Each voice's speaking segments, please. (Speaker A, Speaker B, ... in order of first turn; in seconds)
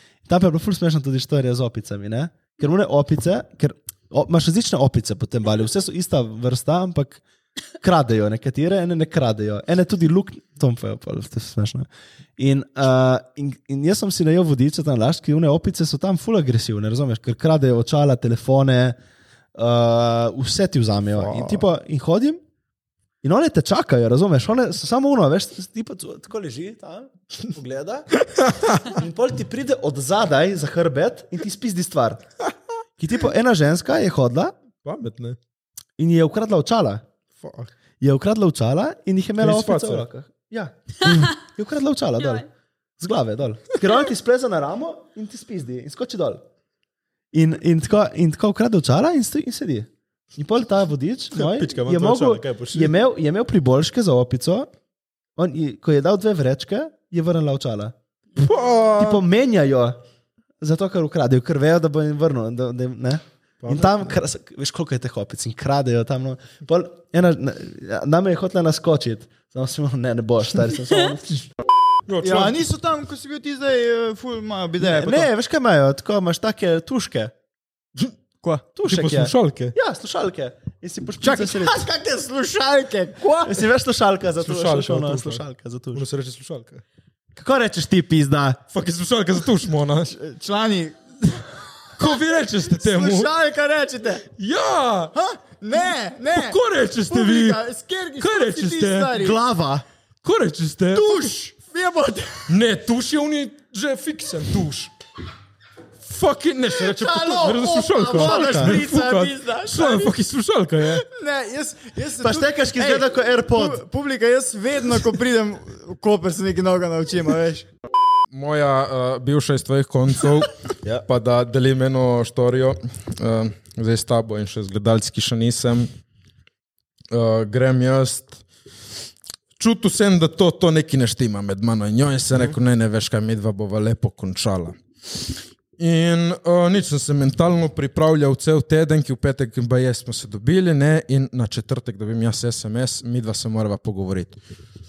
Speaker A: 0.2-7.2, 7.8-19.0, 19.5-22.4, 23.2-28.1, 28.9-32.2, 33.0-34.5, 36.0-37.0, 38.0-42.4, 43.0-46.4, 47.3-54.7, 55.4-57.9, 59.0-60.0, 60.6-71.4, 74.8-77.3, 78.7-81.8, 83.4-86.0, 87.3-88.6, 99.2-99.8, 108.2-108.8, 112.2-113.8
Speaker B: 21.2-21.6, 28.4-28.9, 34.8-35.4, 37.4-37.7, 39.4-40.0, 51.3-52.9, 58.4-59.2, 63.6-64.1, 72.1-72.6, 78.8-79.7, 84.4-85.4, 85.9-86.8, 88.7-90.1, 92.0-93.3, 94.4-95.2, 96.3-97.6, 98.2-99.2, 100.2-101.3, 102.5-104.9, 106.0-111.0, 118.3-120.5, 121.0-125.9, 127.1-128.4, 129.6-134.8, 135.8-144.4
Speaker C: 72.2-75.3, 81.2-83.7, 90.1-91.4, 92.6-94.2, 95.1-99.4, 100.9-102.5, 106.7-110.2, 110.8-117.7